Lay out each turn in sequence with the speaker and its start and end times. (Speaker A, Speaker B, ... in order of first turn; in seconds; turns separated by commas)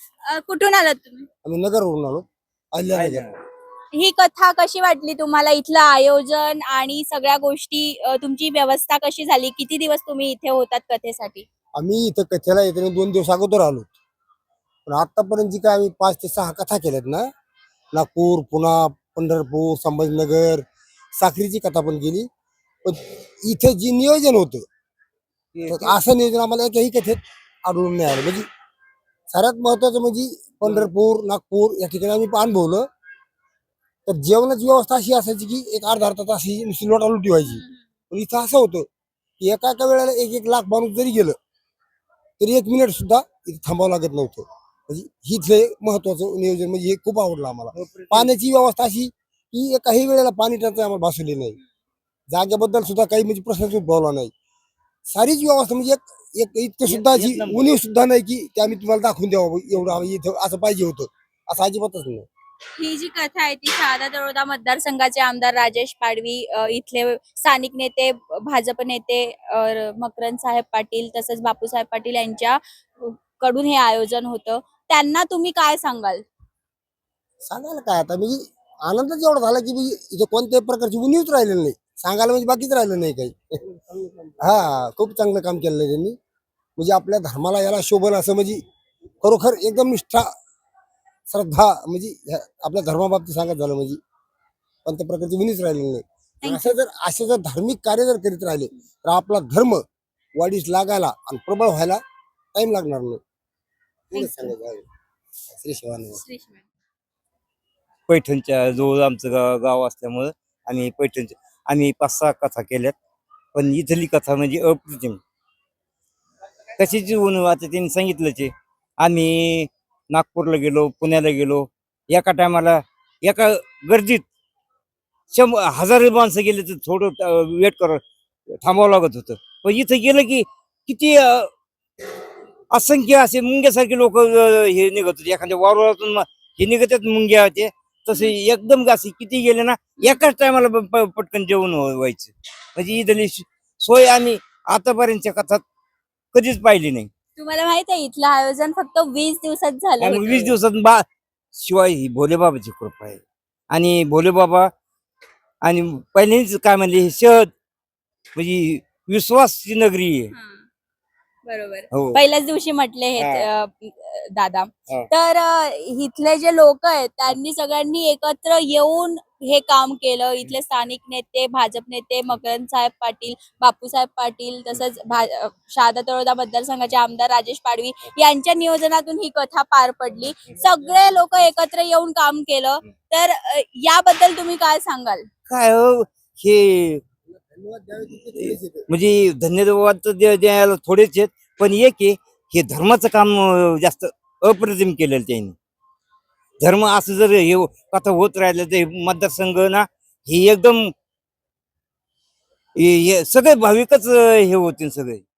Speaker A: 0.3-1.3, Speaker B: 1.4-3.3, Speaker C: 2.9-3.4, Speaker A: 4.0-11.4, Speaker B: 11.8-13.9, Speaker B: 14.8-17.3, Speaker B: 17.9-20.6, Speaker B: 21.2-22.3, Speaker B: 22.8-24.6, Speaker C: 25.5-25.9, Speaker B: 25.7-28.4, Speaker B: 29.3-32.9, Speaker C: 30.6-30.9, Speaker B: 34.0-38.9, Speaker A: 37.5-37.8, Speaker B: 39.4-41.4, Speaker B: 42.4-51.6, Speaker C: 47.7-48.3, Speaker B: 52.3-54.3, Speaker B: 55.1-62.3, Speaker C: 56.9-57.7, Speaker A: 62.8-76.2, Speaker B: 77.4-83.6, Speaker B: 84.4-86.2, Speaker B: 86.8-88.6, Speaker B: 89.2-90.3, Speaker B: 91.3-94.0, Speaker B: 94.8-99.8, Speaker A: 96.4-96.8, Speaker B: 100.3-102.0, Speaker B: 102.5-103.2, Speaker B: 104.1-104.8, Speaker A: 104.1-104.5, Speaker B: 105.5-106.2, Speaker A: 106.2-106.7, Speaker C: 108.1-112.9, Speaker C: 113.5-115.2, Speaker C: 116.8-124.2, Speaker C: 125.3-131.5, Speaker C: 132.7-145.6, Speaker C: 146.3-147.1, Speaker A: 147.4-150.6, Speaker C: 150.0-153.2, Speaker C: 153.7-154.7, Speaker C: 155.6-157.5, Speaker C: 158.4-160.3, Speaker A: 160.3-160.7, Speaker A: 161.5-185.2, Speaker C: 161.9-162.2, Speaker C: 163.2-163.5, Speaker C: 185.5-187.0, Speaker B: 187.3-188.9, Speaker C: 188.4-195.6, Speaker C: 196.6-200.9, Speaker C: 202.8-205.2